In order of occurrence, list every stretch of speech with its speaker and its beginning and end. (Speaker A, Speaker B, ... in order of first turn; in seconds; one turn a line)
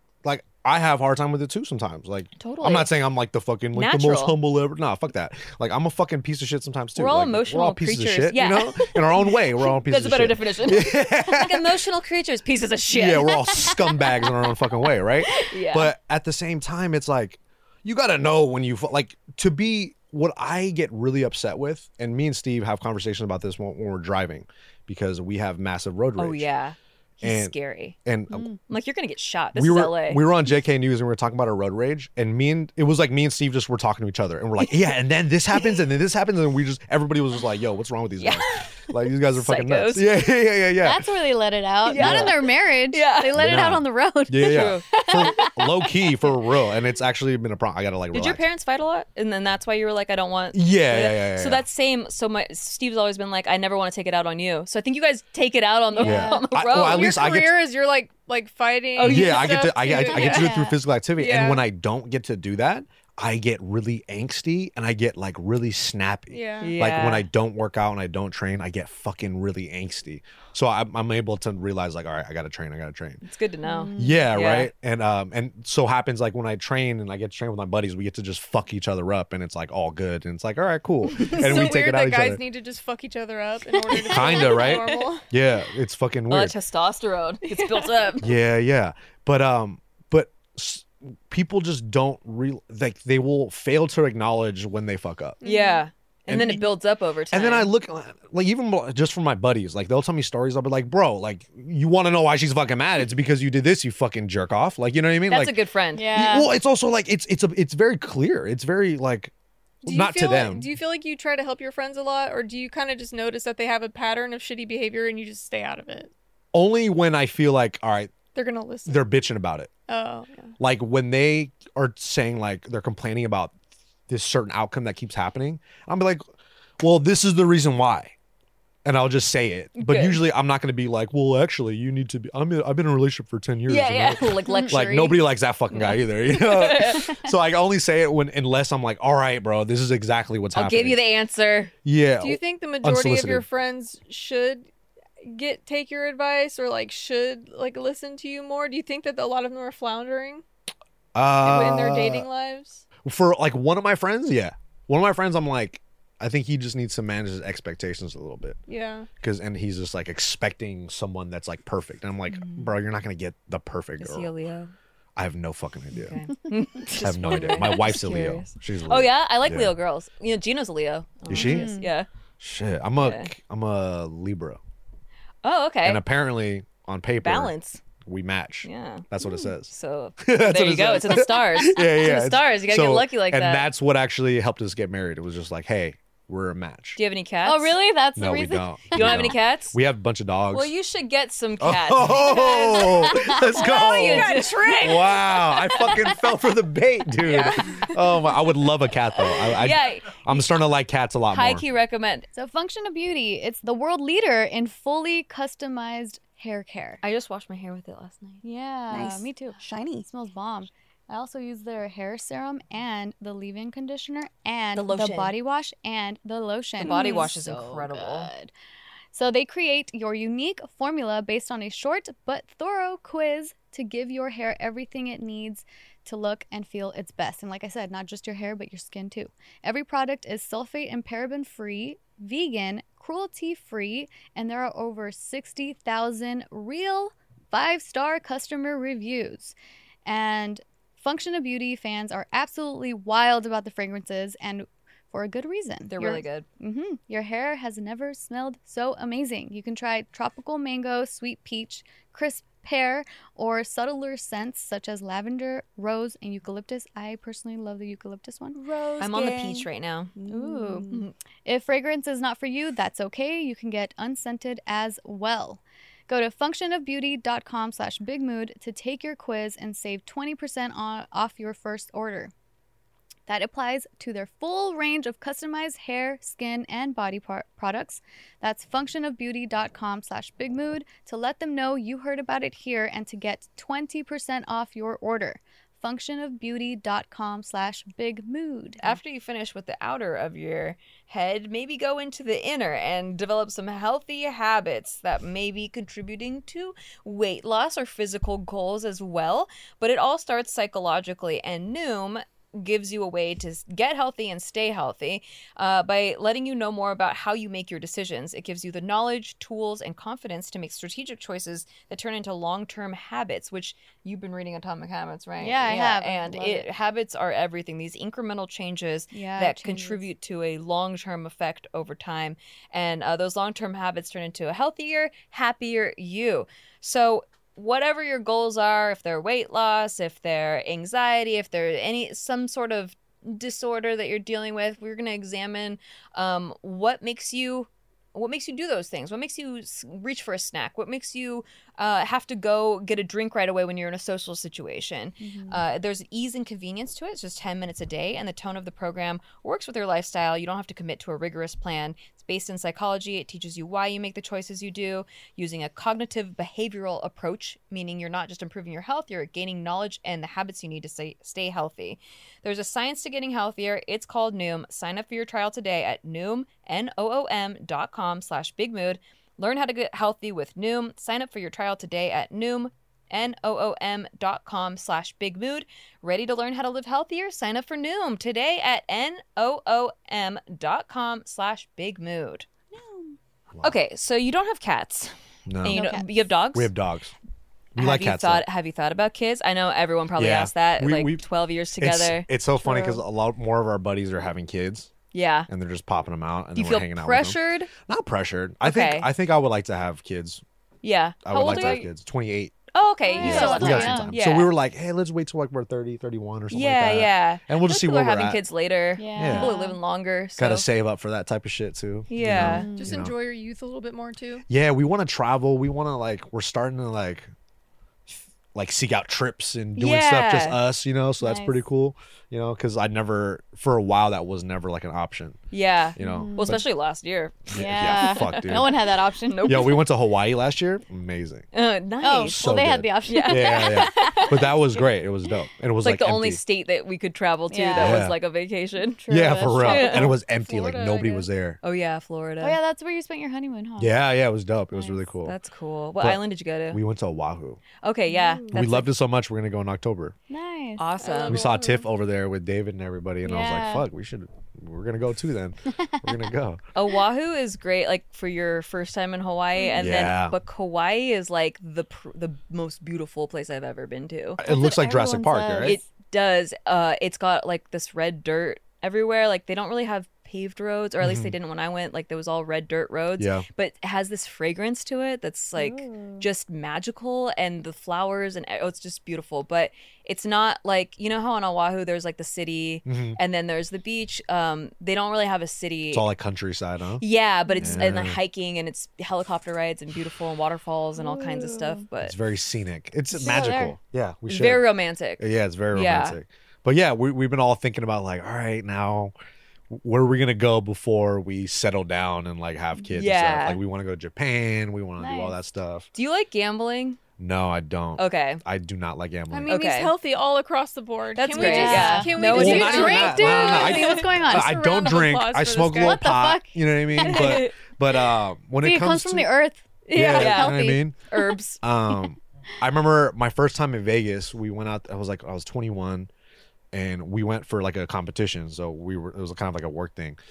Speaker A: 0.2-11.8
Speaker B: 2.4-2.9
Speaker B: 3.7-4.4
Speaker B: 6.9-13.8
Speaker A: 12.9-26.5
Speaker B: 15.2-15.9
Speaker B: 26.2-27.9
Speaker A: 27.2-27.5
Speaker A: 28.0-28.5
Speaker B: 28.6-30.2
Speaker A: 29.5-41.1
Speaker B: 38.2-38.6
Speaker B: 39.2-40.1
Speaker C: 40.8-45.5
Speaker B: 41.8-43.4
Speaker A: 42.0-42.3
Speaker A: 43.3-48.4
Speaker B: 44.4-45.7
Speaker B: 48.1-57.2
Speaker A: 50.5-51.6
Speaker C: 56.0-56.4
Speaker A: 56.0-57.5
Speaker D: 56.7-60.5
Speaker B: 59.0-59.6
Speaker A: 59.0-73.2
Speaker C: 60.1-60.8
Speaker D: 61.2-61.6
Speaker D: 66.3-66.7
Speaker B: 66.6-67.3
Speaker B: 73.2-74.7
Speaker C: 73.6-74.3
Speaker A: 74.0-82.4
Speaker B: 81.1-81.7
Speaker D: 81.2-85.2
Speaker C: 83.9-84.4
Speaker A: 84.1-86.5
Speaker B: 86.3-88.3
Speaker D: 87.5-87.9
Speaker A: 88.2-95.4
Speaker D: 95.4-95.8
Speaker B: 95.4-97.7
Speaker A: 96.3-96.7
Speaker A: 97.3-105.6
Speaker B: 105.3-106.1
Speaker C: 105.9-106.5
Speaker A: 106.1-109.3
Speaker D: 109.8-116.1
Speaker A: 109.8-110.7
Speaker A: 116.5-118.1
Speaker D: 118.3-119.0
Speaker A: 118.8-119.7
Speaker D: 119.9-120.5
Speaker A: 120.6-123.5
Speaker A: 124.1-126.2
Speaker A: 126.8-128.1
Speaker A: 128.8-141.0
Speaker B: 129.8-130.2
Speaker B: 133.7-137.2
Speaker C: 134.5-135.0
Speaker B: 140.5-141.7
Speaker A: 141.8-143.4
Speaker D: 142.2-144.7
Speaker D: 145.2-150.4
Speaker A: 151.1-152.2
Speaker D: 151.4-152.8
Speaker A: 153.0-158.6
Speaker D: 158.7-159.1
Speaker A: 159.2-164.3
Speaker B: 162.3-162.7
Speaker B: 164.0-164.7
Speaker A: 165.2-166.2
Speaker B: 165.9-172.1
Speaker A: 166.9-169.7
Speaker A: 171.3-171.7
Speaker C: 171.3-171.9
Speaker A: 172.4-174.6
Speaker B: 173.0-173.3
Speaker B: 175.4-176.0
Speaker A: 175.8-177.5
Speaker B: 177.2-177.8
Speaker A: 178.0-187.0
Speaker B: 178.6-179.1
Speaker B: 179.7-183.7
Speaker B: 186.9-187.8
Speaker C: 187.4-189.3
Speaker A: 188.2-190.7
Speaker B: 188.9-189.8
Speaker B: 190.5-195.2
Speaker A: 191.6-201.6
Speaker C: 192.4-193.6
Speaker D: 193.7-195.3
Speaker D: 197.2-197.9
Speaker B: 199.5-200.4
Speaker B: 201.3-202.3
Speaker C: 202.3-207.0
Speaker B: 207.0-208.4
Speaker C: 208.4-218.5
Speaker E: 208.9-210.1
Speaker B: 214.7-215.3
Speaker B: 216.8-218.3
Speaker E: 216.8-217.3
Speaker C: 219.1-258.6
Speaker B: 245.9-246.4
Speaker E: 258.6-261.1
Speaker B: 259.0-260.1
Speaker C: 260.3-260.9
Speaker C: 261.4-272.3
Speaker C: 273.3-289.0
Speaker B: 288.8-382.5
Speaker C: 315.4-316.7
Speaker C: 319.1-320.0
Speaker C: 345.2-345.6
Speaker C: 382.7-383.1
Speaker B: 383.6-386.7
Speaker A: 385.4-385.9
Speaker C: 385.7-386.1
Speaker A: 386.5-387.1
Speaker A: 387.7-388.4
Speaker B: 387.8-392.3
Speaker A: 390.2-391.2
Speaker A: 391.8-394.9
Speaker C: 392.6-393.0
Speaker B: 395.1-395.5
Speaker A: 395.5-400.4
Speaker B: 396.6-397.7
Speaker B: 398.6-399.1
Speaker B: 400.8-401.9
Speaker A: 401.2-402.5
Speaker C: 401.4-401.9
Speaker B: 402.7-404.5
Speaker C: 403.1-404.1
Speaker A: 403.1-408.4
Speaker B: 406.5-410.6
Speaker C: 409.0-409.8
Speaker A: 409.1-409.5
Speaker A: 410.4-413.1
Speaker B: 412.1-412.7
Speaker C: 412.4-413.0
Speaker D: 412.7-414.4
Speaker A: 414.5-417.3
Speaker A: 418.5-425.4
Speaker B: 419.8-420.6
Speaker C: 421.2-421.6
Speaker B: 425.5-429.8
Speaker A: 425.9-426.6
Speaker C: 426.0-426.6
Speaker A: 427.5-428.8
Speaker C: 427.5-429.8
Speaker A: 429.4-431.4
Speaker B: 431.5-432.5
Speaker C: 432.0-434.8
Speaker A: 432.2-436.4
Speaker B: 433.0-434.4
Speaker B: 435.8-439.0
Speaker C: 437.5-438.1
Speaker A: 437.8-438.1
Speaker C: 439.0-440.2
Speaker A: 439.1-441.6
Speaker B: 439.6-440.1
Speaker D: 440.3-441.3
Speaker B: 441.6-442.6
Speaker C: 442.4-443.9
Speaker A: 443.8-445.4
Speaker C: 444.7-445.0
Speaker B: 445.2-446.8
Speaker A: 446.0-447.6
Speaker B: 447.8-448.9
Speaker C: 448.1-448.6
Speaker A: 448.5-450.1
Speaker C: 450.3-450.9
Speaker B: 450.8-451.4
Speaker D: 451.0-451.8
Speaker A: 451.2-456.6
Speaker C: 453.2-453.9
Speaker C: 455.8-456.2
Speaker B: 456.7-464.4
Speaker C: 459.6-459.9
Speaker A: 459.8-460.3
Speaker A: 464.4-465.8
Speaker C: 464.4-465.8
Speaker B: 465.6-486.1
Speaker A: 471.0-471.3
Speaker A: 473.2-473.4
Speaker C: 475.6-476.2
Speaker A: 482.8-483.2
Speaker A: 485.9-487.0
Speaker B: 487.0-492.1
Speaker C: 487.5-487.9
Speaker A: 487.6-488.2
Speaker C: 491.0-491.8
Speaker A: 492.0-494.6
Speaker C: 493.1-493.7
Speaker B: 494.3-496.2
Speaker A: 495.2-499.1
Speaker A: 499.7-505.9
Speaker B: 502.9-503.6
Speaker C: 505.0-505.4
Speaker B: 505.9-507.0
Speaker A: 507.2-509.5
Speaker B: 508.0-508.4
Speaker D: 509.3-516.0
Speaker B: 509.5-509.9
Speaker B: 511.1-514.0
Speaker C: 511.3-514.6
Speaker A: 511.6-519.3
Speaker C: 515.8-517.4
Speaker B: 517.0-517.5
Speaker C: 518.6-520.8
Speaker B: 519.9-521.6
Speaker A: 519.9-521.0
Speaker A: 521.6-526.1
Speaker A: 526.7-530.2